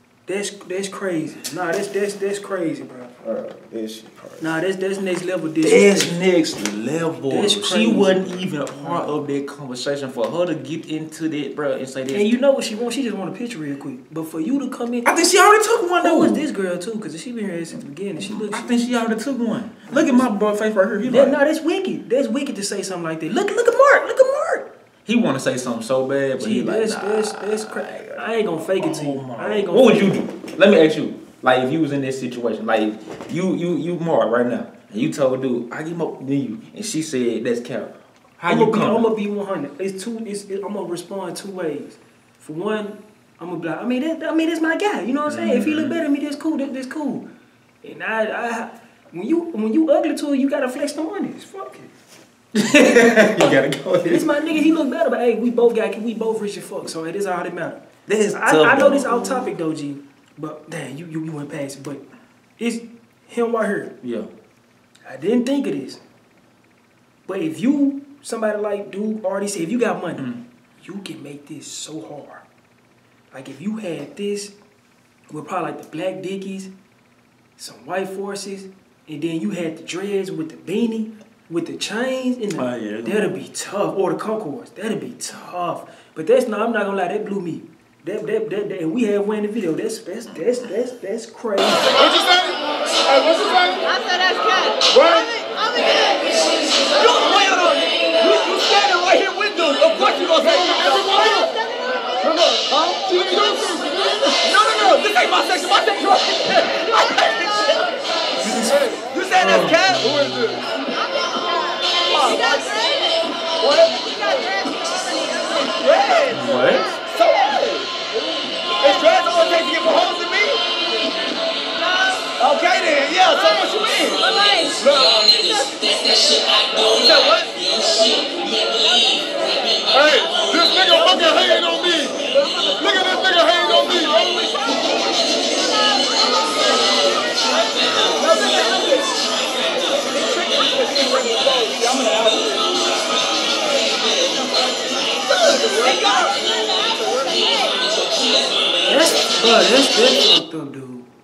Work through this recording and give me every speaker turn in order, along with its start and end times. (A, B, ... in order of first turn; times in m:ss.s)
0:00.3-0:03.1 A
0:03.2-0:04.5 B
0:04.4-0:06.2 A
0:05.6-0:12.4 B
0:07.3-0:09.1 A
0:12.1-0:15.2 A
0:15.0-0:16.4 B
0:16.0-0:18.9 A
0:18.2-0:21.4 B
0:19.9-0:20.3 A
0:21.0-0:24.7 A
0:25.1-0:28.2 B
0:26.4-0:30.2 A
0:28.8-0:39.1 B
0:38.5-0:47.3 A
0:45.3-0:46.0 B
0:47.8-0:51.9 A
0:52.6-0:54.6 B
0:54.0-0:57.8 A
0:58.1-0:59.5 B
0:58.3-1:02.0 A
1:02.6-1:03.9 A
1:04.0-1:04.3 B
1:05.0-1:06.0 A
1:07.3-1:10.3 A
1:10.2-1:10.4 B
1:10.8-1:12.4 A
1:13.3-1:14.5 A
1:15.3-1:16.7 A
1:17.6-1:32.0 A
1:22.5-1:23.4 B
1:32.0-1:33.8 C
1:33.8-1:36.2 D
1:34.9-1:35.3 C
1:37.0-1:41.5 E
1:40.4-1:41.5 C
1:42.2-1:44.4 C
1:42.6-1:43.4 E
1:44.3-1:47.9 E
1:48.4-1:48.8 A
1:48.7-1:49.0 C
1:49.1-1:50.1 E
1:49.4-1:50.2 A
1:50.0-1:50.6 C
1:52.1-1:52.9 E
1:53.6-1:54.3 E
1:54.2-1:55.4 D
1:55.6-1:57.9 E
1:56.3-1:57.0 B
1:58.8-2:00.6 E
2:02.4-2:04.2 E
2:04.2-2:05.9 D
2:06.8-2:07.5 E
2:09.9-2:12.2 C
2:12.7-2:13.0 E
2:12.8-2:14.3 C
2:13.8-2:14.2 E
2:18.1-2:19.1 E
2:20.1-2:22.6 E
2:25.3-2:27.4 E
2:28.9-2:31.1 A